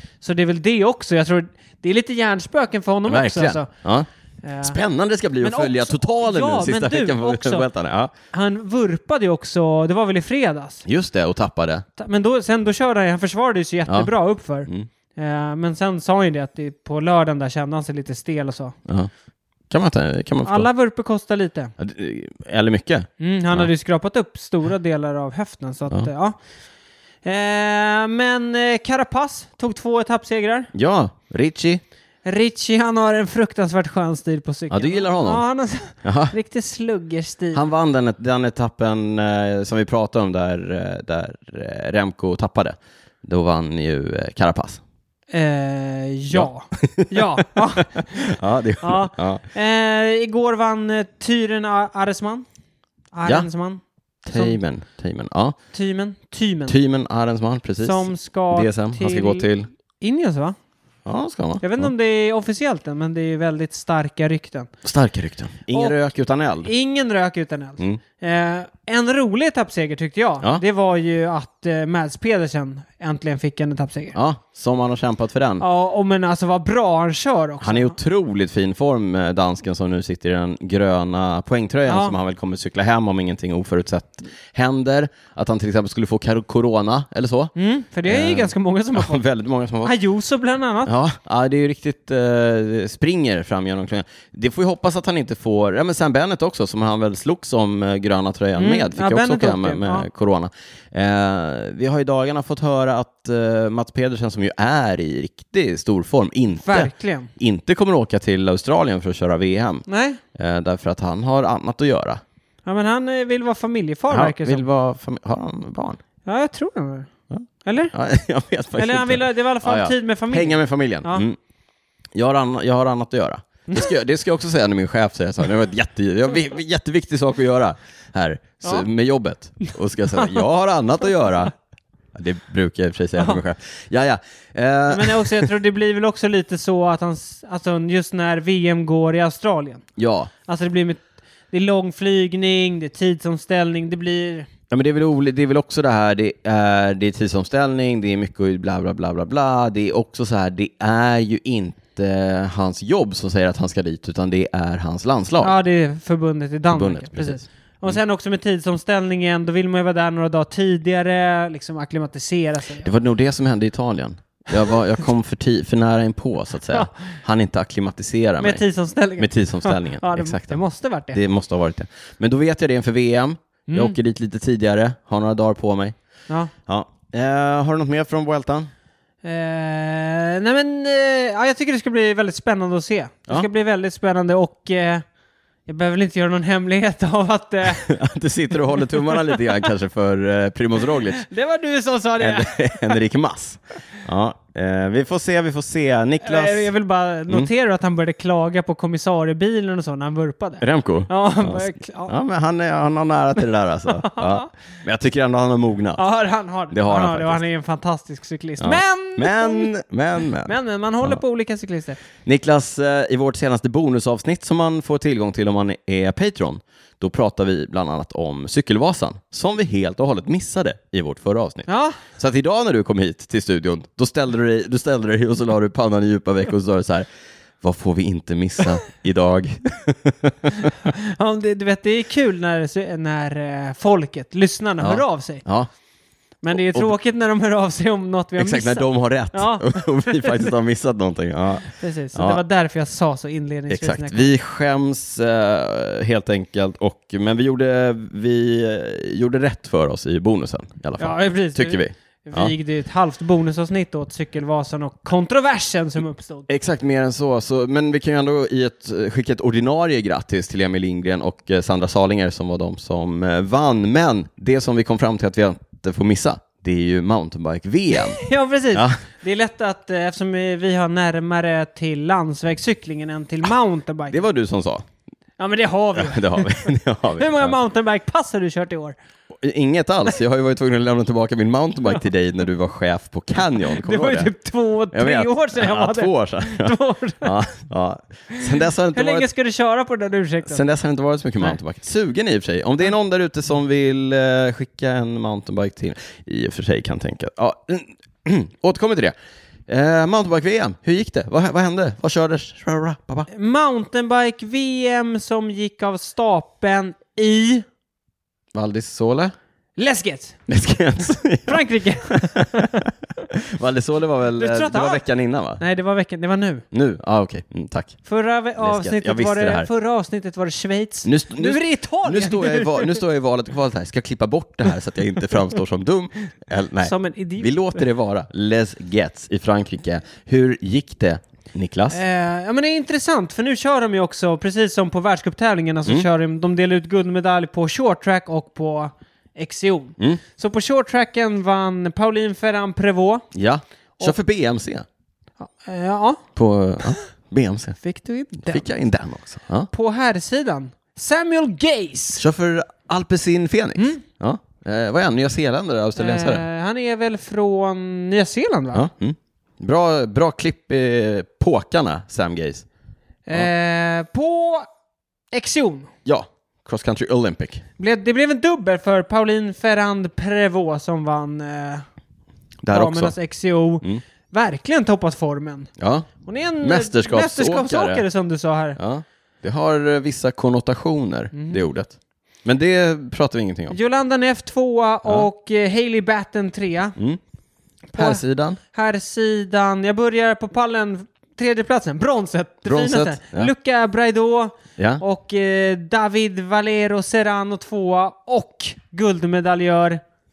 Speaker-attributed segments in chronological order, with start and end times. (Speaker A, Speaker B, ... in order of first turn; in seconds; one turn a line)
Speaker A: 0.2-3.7
Speaker B: 3.1-4.1
Speaker A: 4.4-4.8
Speaker B: 4.6-8.1
Speaker A: 5.4-7.7
Speaker A: 8.3-10.8
Speaker B: 10.8-11.8
Speaker A: 12.0-18.8
Speaker B: 19.7-20.7
Speaker A: 20.4-21.7
Speaker B: 21.8-23.7
Speaker A: 23.2-26.4
Speaker A: 27.2-30.7
Speaker B: 30.7-31.8
Speaker A: 32.2-37.6
Speaker B: 34.7-35.4
Speaker B: 36.0-36.3
Speaker B: 37.5-44.8
Speaker A: 45.3-52.5
Speaker B: 46.3-49.4
Speaker A: 53.1-53.8
Speaker B: 54.2-55.6
Speaker A: 55.7-56.8
Speaker B: 56.7-59.7
Speaker A: 57.8-59.5
Speaker A: 60.0-60.6
Speaker B: 61.0-61.9
Speaker A: 61.6-64.7
Speaker B: 64.8-66.7
Speaker A: 65.7-66.0
Speaker A: 66.6-74.2
Speaker B: 74.1-75.6
Speaker A: 75.6-78.0
Speaker B: 77.6-87.5
Speaker A: 81.9-82.2
Speaker A: 87.5-89.2
Speaker B: 88.0-89.9
Speaker A: 89.8-90.9
Speaker B: 90.8-112.2
Speaker A: 98.5-100.1
Speaker A: 106.6-107.3
Speaker A: 109.9-110.2
Speaker A: 112.6-114.6
Speaker B: 114.1-116.0
Speaker A: 116.2-117.1
Speaker B: 117.3-121.4
Speaker A: 117.6-117.9
Speaker A: 118.7-121.2
Speaker B: 122.1-131.5
Speaker A: 130.1-130.4
Speaker B: 132.1-135.5
Speaker A: 134.9-139.8
Speaker B: 140.0-140.3
Speaker A: 140.4-144.5
Speaker B: 144.7-155.5
Speaker A: 155.4-162.9
Speaker B: 156.7-158.0
Speaker B: 162.8-168.6
Speaker A: 168.4-171.2
Speaker B: 169.2-170.6
Speaker B: 171.1-175.9
Speaker A: 173.7-173.9
Speaker B: 176.7-178.7
Speaker A: 179.2-185.0
Speaker A: 185.7-187.9
Speaker B: 187.8-191.2
Speaker A: 188.8-189.4
Speaker A: 191.2-193.0
Speaker B: 192.2-196.7
Speaker A: 196.2-202.1
Speaker B: 200.6-206.0
Speaker A: 203.9-204.5
Speaker A: 206.0-209.7
Speaker B: 206.7-207.4
Speaker B: 208.6-211.2
Speaker A: 210.4-212.0
Speaker B: 212.2-227.1
Speaker A: 221.7-222.0
Speaker B: 227.6-230.7
Speaker A: 230.8-235.4
Speaker B: 234.8-235.7
Speaker A: 236.4-240.5
Speaker B: 236.5-236.9
Speaker B: 238.4-242.4
Speaker A: 241.7-244.3
Speaker B: 243.7-252.5
Speaker A: 251.0-256.5
Speaker B: 256.5-268.2
Speaker A: 267.9-274.2
Speaker B: 268.7-269.0
Speaker B: 274.1-274.8
Speaker A: 275.4-278.9
Speaker B: 275.9-277.6
Speaker B: 279.4-284.3
Speaker A: 283.7-287.3
Speaker B: 284.9-289.3
Speaker A: 288.9-290.6
Speaker B: 290.5-299.1
Speaker B: 299.7-303.3
Speaker A: 303.3-307.6
Speaker B: 308.5-309.3
Speaker A: 309.8-310.4
Speaker B: 310.5-315.6
Speaker A: 311.5-312.8
Speaker A: 314.4-315.0
Speaker A: 315.6-316.6
Speaker B: 316.7-318.0
Speaker A: 318.1-323.0
Speaker B: 318.6-319.7
Speaker B: 321.0-332.0
Speaker A: 326.8-327.8
Speaker A: 331.9-343.2
Speaker B: 343.3-344.9
Speaker A: 345.4-346.2
Speaker B: 346.4-347.8
Speaker A: 347.8-348.7
Speaker B: 348.4-349.7
Speaker A: 349.7-352.2
Speaker B: 352.2-356.4
Speaker A: 356.0-358.9
Speaker B: 358.7-362.6
Speaker A: 363.2-364.7
Speaker A: 365.3-365.9
Speaker B: 366.0-367.6
Speaker A: 367.8-371.8
Speaker B: 372.6-373.1
Speaker A: 372.7-375.7
Speaker B: 375.8-376.1
Speaker A: 376.2-378.8
Speaker B: 376.6-378.0
Speaker B: 378.8-381.9
Speaker A: 381.3-381.6
Speaker B: 382.4-383.8
Speaker A: 383.7-386.9
Speaker A: 387.9-400.0
Speaker B: 387.9-388.6
Speaker B: 392.7-393.5
Speaker B: 394.8-395.0